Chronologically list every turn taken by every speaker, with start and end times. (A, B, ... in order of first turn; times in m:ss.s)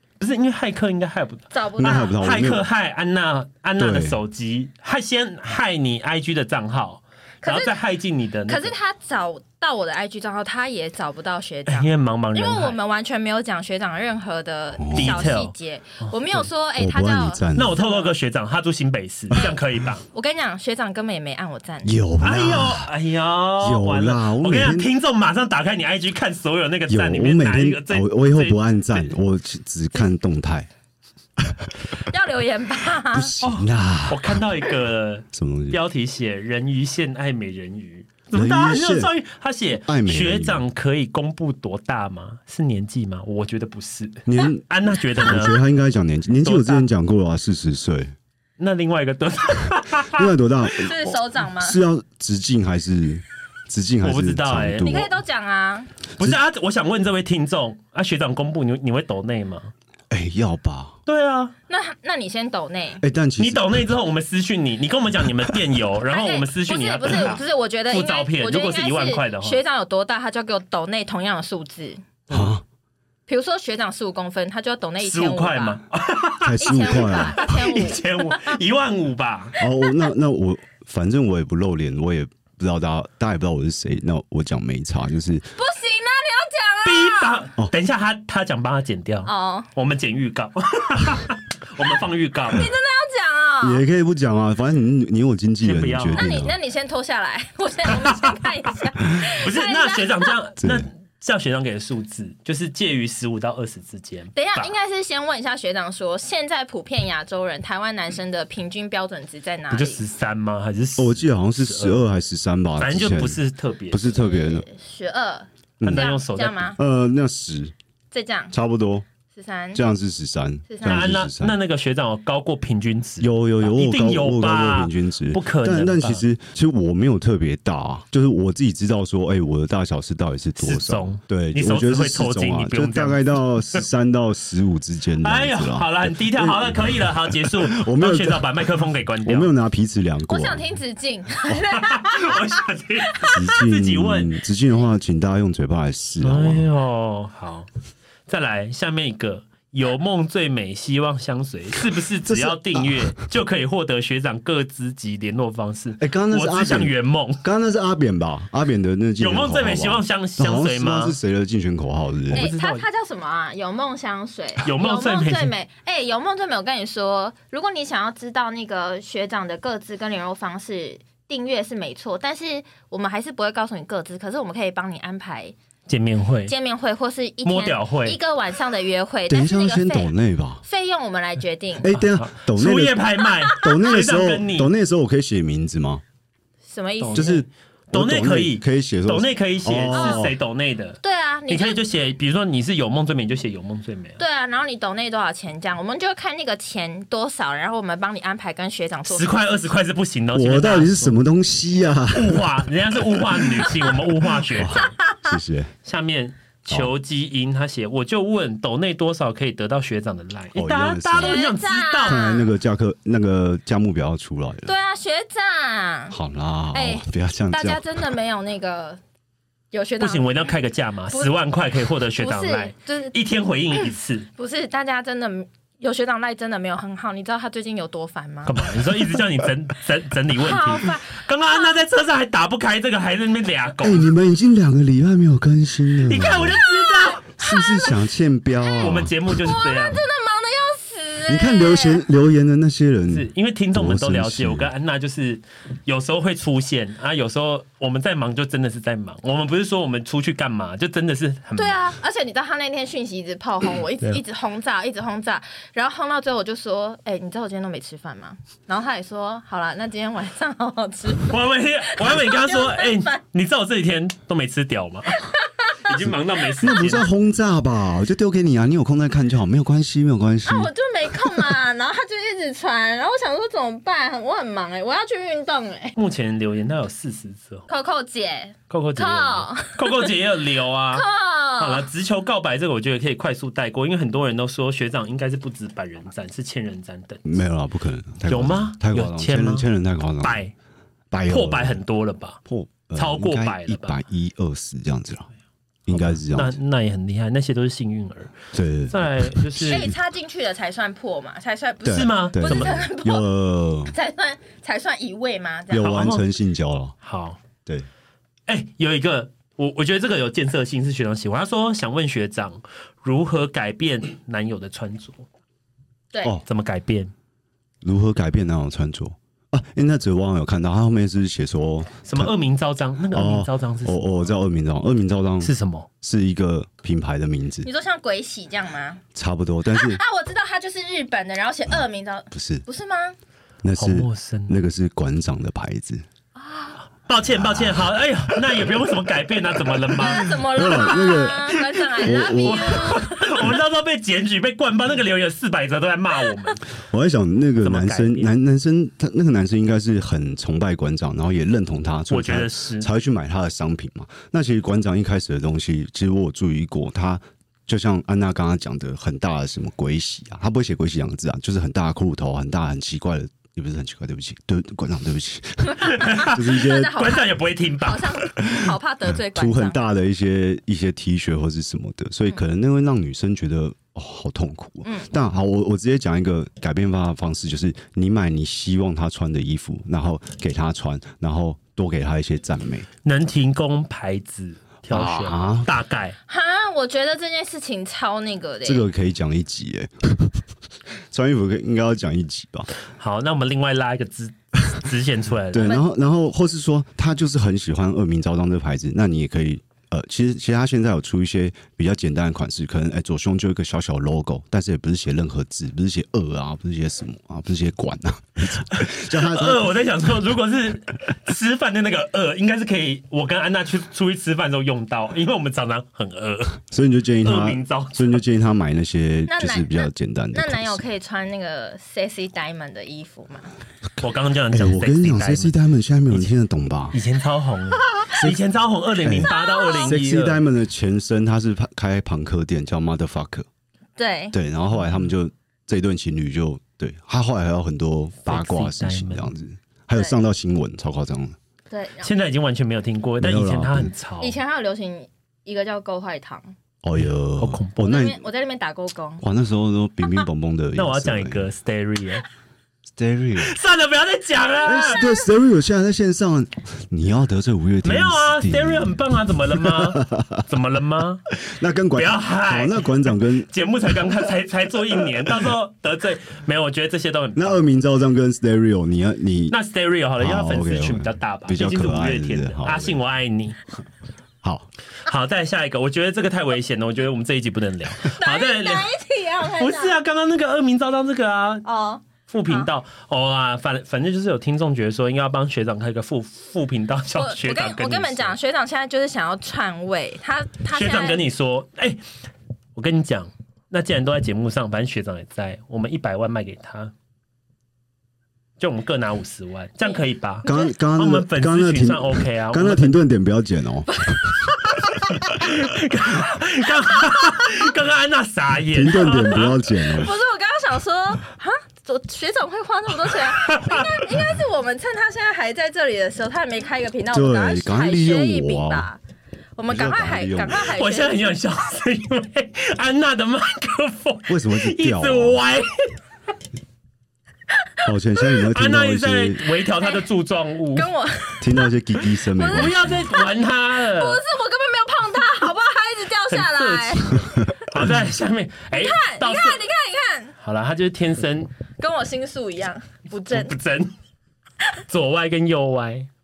0:00.2-0:01.5 A
0:01.5-0:02.3 B
0:01.8-0:02.7 C
0:02.2-0:08.7 A
0:03.8-0:04.2 C
0:07.4-0:07.8 B
0:08.5-0:18.1 B
0:11.7-0:12.8 A
0:14.8-0:15.3 C
0:14.9-0:16.5 A
0:16.8-0:17.8 C
0:17.6-0:20.0 A
0:20.1-0:22.0 B
0:21.8-0:22.9 C
0:22.2-0:29.1 A
0:23.6-0:24.9 C
0:26.9-0:30.7 C
0:31.4-0:31.7 C
0:32.1-0:33.3 B
0:33.1-0:34.4 C
0:33.4-0:45.6 A
0:35.3-0:35.8 C
0:38.3-0:39.1 C
0:39.9-0:40.6 C
0:44.3-0:44.6 C
0:45.2-0:48.1 C
0:46.4-0:46.9 A
0:48.6-0:50.3 A
0:50.1-0:55.1 C
0:50.7-0:51.8 B
0:54.0-0:55.1 A
0:54.8-0:55.9 B
0:56.2-0:59.7 A
1:00.1-1:01.0 C
1:01.1-1:01.6 A
1:01.7-1:03.0 B
1:03.0-1:03.9 C
1:03.4-1:09.6 A
1:05.3-1:05.6 C
1:06.1-1:12.0 B
1:12.3-1:12.6 A
1:12.3-1:12.6 C
1:13.3-1:15.8 B
1:15.0-1:19.5 A
1:16.4-1:17.4 C
1:16.6-1:18.6 B
1:19.6-1:25.5 C
1:25.6-1:27.4 B
1:26.8-1:32.7 A
1:29.2-1:29.7 B
1:32.5-1:33.8 B
1:33.6-1:36.6 C
1:35.6-1:36.4 A
1:36.1-1:40.4 B
1:37.9-1:38.3 A
1:39.3-1:44.7 A
1:40.6-1:40.9 C
1:44.4-1:50.0 B
1:49.7-1:52.0 A
1:51.0-1:54.6 C
1:52.8-1:54.1 A
1:54.0-1:56.8 B
1:55.8-1:56.1 C
1:55.8-1:56.7 A
1:56.8-1:57.7 C
1:58.1-1:58.6 B
1:58.5-1:59.1 C
1:59.3-1:59.8 B
1:59.7-2:01.6 C
2:00.7-2:01.1 B
2:00.8-2:06.2 A
2:03.2-2:18.6 C
2:10.6-2:13.8 A
2:15.2-2:19.5 A
2:19.2-2:20.7 C
2:20.3-2:23.4 B
2:21.7-2:24.4 A
2:23.3-2:26.7 C
2:26.2-2:27.7 A
2:28.3-2:37.4 A
2:32.2-2:33.3 C
2:36.0-2:42.5 C
2:39.2-2:41.2 A
2:42.3-2:42.8 A
2:42.3-2:55.6 B
2:44.6-2:45.5 A
2:55.9-2:56.5 A
2:56.5-3:01.9 B
2:57.4-2:58.2 A
2:59.3-3:00.6 C
3:01.8-3:03.0 C
3:01.9-3:04.7 A
3:03.5-3:06.0 C
3:06.7-3:07.4 B
3:07.0-3:07.4 A
3:07.2-3:10.3 C
3:07.9-3:14.2 A
3:09.9-3:10.3 B
3:11.0-3:11.8 B
3:14.2-3:19.4 B
3:19.1-3:21.2 A
3:20.3-3:23.8 C
3:22.1-3:25.0 A
3:24.5-3:25.7 C
3:24.7-3:25.3 B
3:25.8-3:32.2 A
3:30.6-3:31.5 C
3:31.2-3:32.5 B
3:32.0-3:34.7 C
3:34.7-3:36.2 B
3:36.1-3:37.8 C
3:36.7-3:39.0 B
3:39.7-3:40.5 B
3:40.0-3:44.3 A
3:41.1-3:41.4 B
3:42.2-3:43.2 B
3:44.4-3:48.7 B
3:48.4-3:54.1 A
3:50.4-3:51.7 B
3:53.8-3:56.6 C
3:56.0-3:57.5 A
3:56.5-3:58.0 B
3:57.4-3:59.2 C
3:58.6-4:02.0 B
3:58.8-4:00.0 A
4:01.3-4:04.7 C
4:03.1-4:11.9 A
4:11.6-4:23.2 B
4:21.3-4:25.2 A
4:25.1-4:25.9 B
4:25.8-4:27.1 A
4:26.0-4:30.7 C
4:30.4-4:36.0 B
4:36.0-4:37.7 A
4:37.7-4:40.1 B
4:38.7-4:47.2 A
4:40.9-4:41.9 B
4:47.2-4:50.4 C
4:48.3-4:49.7 A
4:50.2-4:50.5 A
4:51.1-4:51.8 C
4:51.3-4:52.4 A
4:52.5-4:55.3 C
4:53.0-4:54.0 A
4:55.9-4:56.6 C
4:55.9-4:58.3 A
4:58.5-4:59.9 C
4:58.9-4:59.9 A
4:59.6-5:03.3 B
5:01.8-5:04.0 C
5:01.9-5:02.9 A
5:03.9-5:06.1 B
5:05.7-5:07.0 C
5:05.8-5:06.2 A
5:07.0-5:07.4 A
5:08.5-5:15.3 A
5:16.1-5:16.4 B
5:16.5-5:17.1 A
5:17.8-5:22.3 C
5:22.0-5:24.3 A
5:23.1-5:25.5 C
5:25.4-5:25.9 A
5:26.0-5:27.7 C
5:27.6-5:29.0 B
5:29.2-5:30.0 C
5:29.7-5:33.2 B
5:31.7-5:32.6 C
5:33.6-5:36.0 C
5:33.8-5:34.6 A
5:36.4-5:36.8 B
5:37.1-5:46.6 A
5:37.2-5:38.7 C
5:39.6-5:43.5 C
5:40.0-5:43.3 B
5:46.9-6:07.1 C
5:47.6-5:48.3 A
5:52.1-5:52.9 A
6:05.8-6:09.8 B
6:05.8-6:08.3 A
6:09.2-6:22.9 C
6:14.8-6:15.1 B
6:23.0-6:26.2 A
6:24.9-6:25.7 C
6:26.3-6:28.9 B
6:28.6-6:30.4 C
6:31.1-6:32.7 C
6:33.0-6:35.7 A
6:35.5-6:49.7 C
6:35.6-6:35.9 B
6:48.7-6:56.6 A
6:56.7-7:00.8 C
6:57.2-6:58.2 A
6:59.3-7:03.5 B
7:04.0-7:05.6 A
7:04.5-7:07.0 C
7:06.9-7:10.4 A
7:08.1-7:08.4 C
7:09.0-7:13.5 C
7:09.2-7:10.0 B
7:14.0-7:14.4 B
7:14.3-7:21.4 C
7:18.3-7:19.3 A
7:21.7-7:22.1 B
7:22.0-7:24.4 A
7:23.2-7:23.9 C
7:24.2-7:26.6 B
7:26.8-7:28.2 C
7:27.4-7:28.0 A
7:27.8-7:29.2 B
7:29.2-7:31.5 C
7:30.8-7:32.2 A
7:33.0-7:33.6 C
7:33.4-7:35.0 A
7:34.6-7:40.5 C
7:34.8-7:35.2 B
7:37.8-7:41.3 A
7:41.4-7:44.1 C
7:42.0-7:47.6 A
7:45.0-7:45.5 C
7:47.4-7:49.6 C
7:49.5-7:53.6 A
7:50.2-7:53.0 C
7:54.4-7:54.7 C
7:55.1-7:58.9 A
7:58.1-8:00.0 B
7:59.5-8:01.7 A
8:01.6-8:02.7 B
8:02.3-8:08.4 A
8:07.2-8:11.2 B
8:10.7-8:12.0 A
8:12.8-8:16.9 A
8:18.6-8:23.0 A
8:19.9-8:20.7 B
8:20.4-8:24.5 C
8:23.9-8:24.4 B
8:25.1-8:29.6 A
8:28.7-8:30.1 C
8:29.8-8:39.0 B
8:33.3-8:34.0 A
8:37.1-8:38.9 C
8:39.6-8:41.4 B
8:39.7-8:40.7 C
8:40.6-8:46.0 A
8:44.3-8:45.4 C
8:47.8-8:49.4 C
8:48.5-8:50.9 A
8:49.8-8:50.0 B
8:50.8-8:51.7 B
8:51.4-8:53.0 C
8:52.3-8:57.2 B
8:52.5-8:54.2 A
8:56.3-8:59.6 A
8:58.7-9:00.4 B
9:00.4-9:01.5 A
9:01.8-9:03.6 B
9:03.3-9:03.9 A
9:04.9-9:06.1 A